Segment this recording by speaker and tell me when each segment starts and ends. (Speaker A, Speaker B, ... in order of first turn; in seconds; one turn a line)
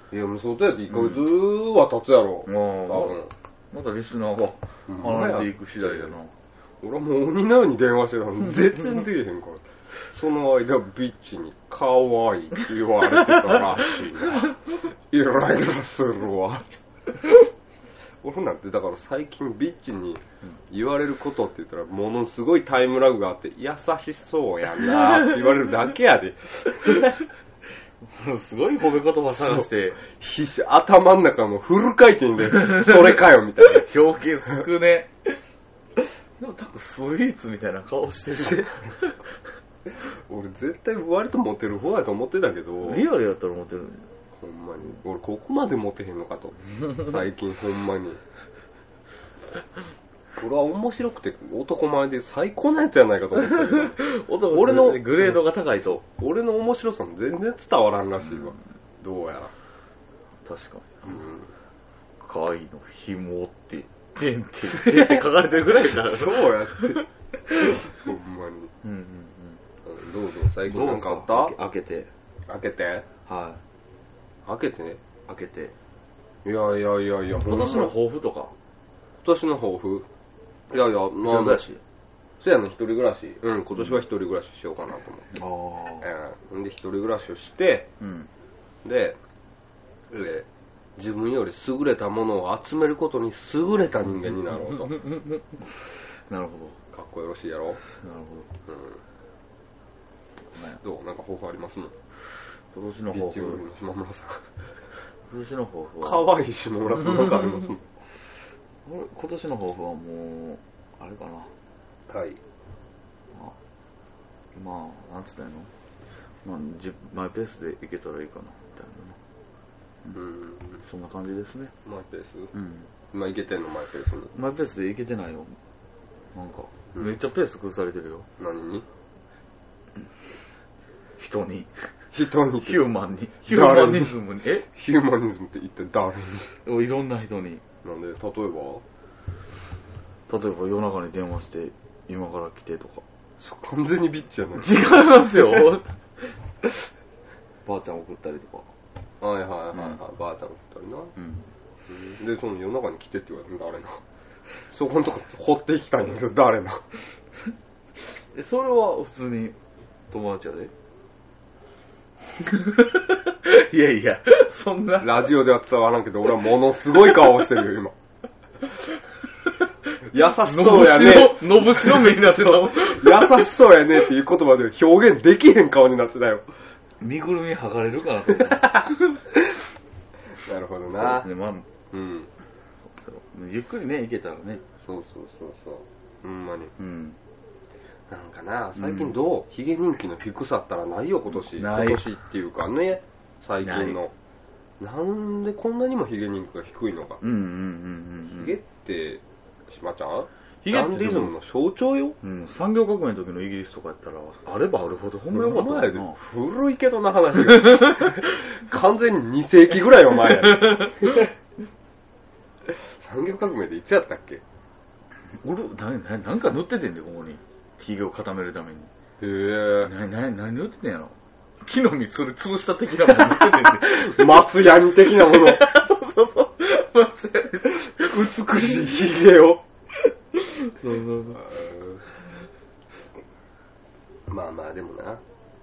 Speaker A: 0.1-3.3
Speaker B: 2.5-3.2
Speaker B: 3.7-6.3
Speaker A: 4.9-6.1
Speaker A: 6.8-16.8
Speaker A: 18.2-27.2
Speaker B: 28.0-30.0
Speaker A: 29.4-33.9
Speaker B: 32.5-35.4
Speaker B: 36.4-39.2
Speaker A: 38.3-38.9
Speaker A: 40.0-43.1
Speaker B: 42.8-44.0
Speaker A: 44.4-48.2
Speaker A: 50.4-55.4
Speaker B: 53.4-56.0
Speaker A: 56.1-59.5
Speaker B: 60.4-61.2
Speaker A: 61.1-61.5
Speaker B: 62.2-66.9
Speaker A: 64.7-68.7
Speaker B: 68.8-69.6
Speaker A: 69.8-71.6
Speaker B: 70.6-72.1
Speaker A: 72.5-73.1
Speaker B: 73.2-73.6
Speaker A: 74.5-75.0
Speaker B: 75.3-75.7
Speaker A: 76.4-77.9
Speaker B: 77.3-78.5
Speaker A: 79.2-80.1
Speaker A: 80.7-81.6
Speaker B: 81.2-81.8
Speaker A: 82.4-85.4
Speaker B: 85.3-86.1
Speaker A: 86.0-87.9
Speaker B: 88.0-88.3
Speaker A: 88.8-89.2
Speaker A: 90.1-95.0
Speaker B: 94.9-96.8
Speaker A: 96.9-97.8
Speaker B: 97.9-98.5
Speaker A: 98.7-99.0
Speaker A: 100.6-101.9
Speaker B: 102.7-103.6
Speaker A: 103.1-104.5
Speaker B: 105.3-106.2
Speaker A: 106.0-107.8
Speaker B: 108.8-111.5
Speaker A: 112.1-112.4
Speaker B: 114.5-115.7
Speaker B: 116.4-119.2
Speaker A: 120.1-120.8
Speaker B: 120.8-121.7
Speaker A: 121.8-122.5
Speaker B: 122.5-122.9
Speaker A: 123.1-124.3
Speaker B: 124.3-125.5
Speaker B: 126.3-128.3
Speaker A: 128.4-128.8
Speaker B: 131.2-131.7
Speaker A: 132.1-132.8
Speaker B: 132.6-134.7
Speaker A: 133.5-136.5
Speaker B: 136.6-137.6
Speaker A: 137.8-138.8
Speaker B: 140.3-143.0
Speaker A: 143.4-144.8
Speaker B: 144.6-145.9
Speaker B: 147.6-148.7
Speaker A: 149.2-151.1
Speaker B: 149.7-150.0
Speaker B: 151.2-151.5
Speaker A: 151.9-154.0
Speaker A: 154.7-156.8
Speaker B: 158.3-159.6
Speaker B: 160.1-160.7
Speaker B: 162.4-165.3
Speaker A: 165.0-167.9
Speaker A: 170.1-176.5
Speaker B: 170.4-173.6
Speaker B: 177.0-179.3
Speaker A: 178.3-178.9
Speaker A: 180.4-181.3
Speaker B: 180.9-181.7
Speaker A: 181.9-182.3
Speaker B: 182.8-184.6
Speaker A: 184.8-186.7
Speaker B: 186.8-187.2
Speaker A: 188.1-194.1
Speaker B: 188.8-189.1
Speaker B: 191.3-192.1
Speaker B: 193.6-194.0
Speaker A: 194.8-197.2
Speaker B: 197.2-198.6
Speaker A: 198.3-202.2
Speaker B: 200.6-201.3
Speaker B: 202.2-206.1
Speaker A: 205.3-211.3
Speaker B: 210.3-211.3
Speaker A: 213.0-214.4
Speaker B: 215.4-218.9
Speaker A: 219.2-219.9
Speaker B: 219.8-224.4
Speaker A: 223.1-225.7
Speaker B: 225.2-228.9
Speaker A: 228.0-229.6
Speaker B: 230.3-231.4
Speaker A: 231.3-232.0
Speaker A: 234.3-235.2